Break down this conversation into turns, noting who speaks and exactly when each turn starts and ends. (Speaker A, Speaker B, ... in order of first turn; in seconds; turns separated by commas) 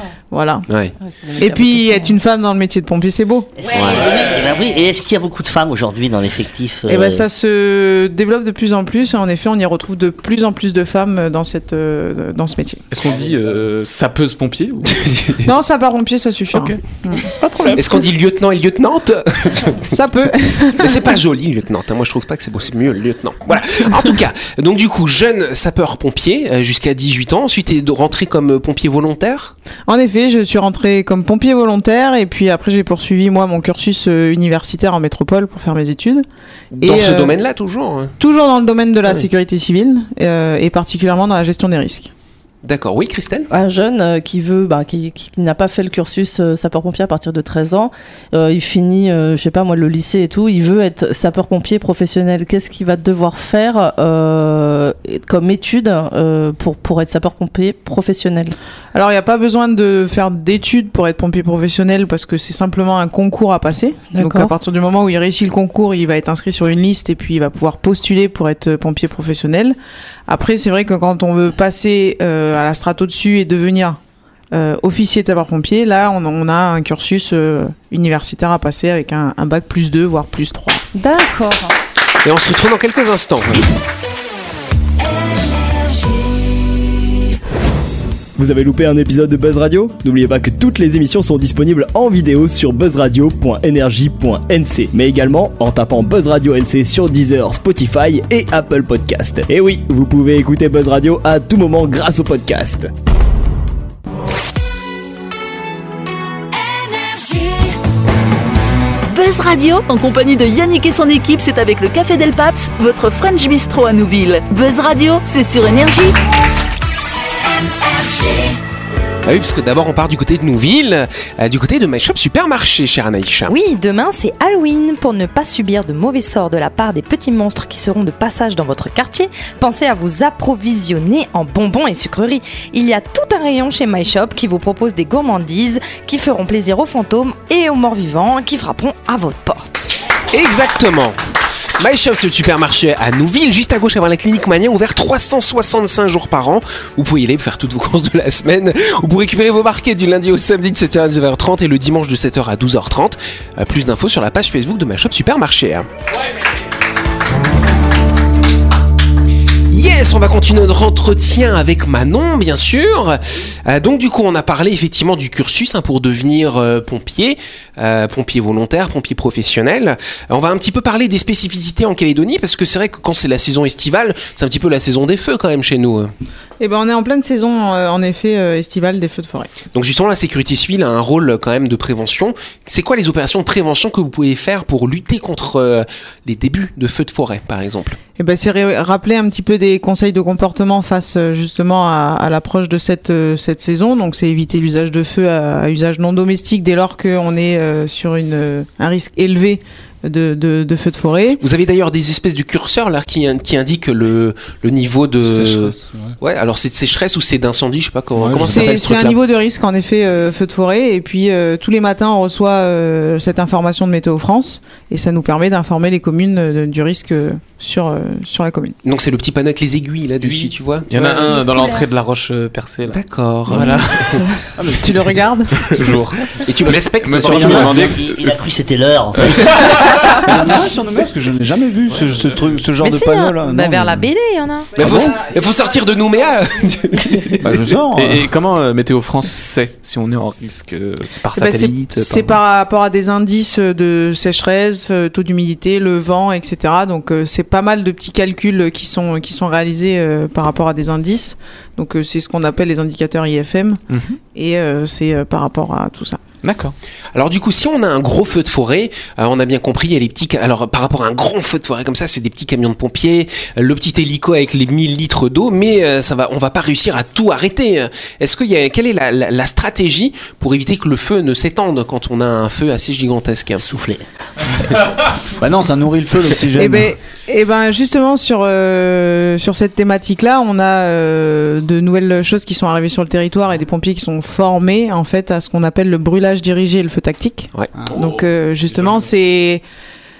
Speaker A: 0.3-0.7, Speaker B: 0.7-0.9, Speaker C: 1.0-2.2, Speaker A: 1.4-3.5, Speaker D: 3.6-7.3, Speaker B: 3.7-4.0, Speaker A: 6.9-12.8, Speaker E: 12.9-15.3, Speaker A: 15.4-17.2, Speaker E: 16.5-18.0, Speaker B: 17.7-20.0, Speaker A: 19.9-21.1, Speaker B: 20.8-29.5, Speaker A: 29.9-36.2, Speaker B: 36.8-38.1, Speaker A: 36.8-37.3, Speaker A: 38.2-42.1, Speaker B: 42.6-43.5, Speaker C: 43.5-58.5, Speaker A: 58.9-69.8, Speaker C: 64.1-64.5, Speaker A: 70.3-74.0, Speaker A: 74.5-80.8, Speaker C: 80.9-81.7, Speaker B: 82.2-83.6, Speaker F: 88.4-102.9, Speaker G: 109.1-116.2, Speaker G: 118.3-118.5, Speaker B: 119.2-123.5, Speaker H: 123.5-140.0, Speaker B: 140.3-141.2, Speaker B: 141.8-155.9, Speaker B: 159.7-176.1, Speaker A: 176.6-179.6, Speaker B: 179.7-188.0, Speaker A: 188.1-201.4, Speaker B: 201.3-209.2, Speaker I: 205.2-206.2, Speaker I: 208.1-209.0, Speaker A: 208.5-218.8, Speaker B: 218.8-221.3, Speaker E: 220.2-224.3, Speaker B: 222.9-223.6, Speaker A: 223.6-225.9, Speaker I: 224.6-225.2, Speaker E: 225.7-228.4, Speaker B: 226.4-227.8, Speaker D: 227.2-229.5, Speaker E: 229.1-230.2, Speaker I: 230.2-234.1, Speaker E: 231.9-232.6, Speaker H: 232.8-234.8, Speaker I: 234.8-235.2, Speaker B: 234.8-237.4, Speaker A: 235.2-236.0, Speaker E: 237.4-242.4, Speaker I: 237.4-238.3, Speaker A: 241.3-253.8, Speaker E: 253.9-254.2, Speaker A: 254.3-256.2, Speaker E: 256.4-256.7, Speaker B: 257.1-273.6, Speaker D: 273.6-274.0, Speaker I: 275.3-277.0, Speaker A: 276.6-289.6, Speaker I: 287.7-288.0, Speaker E: 287.9-289.1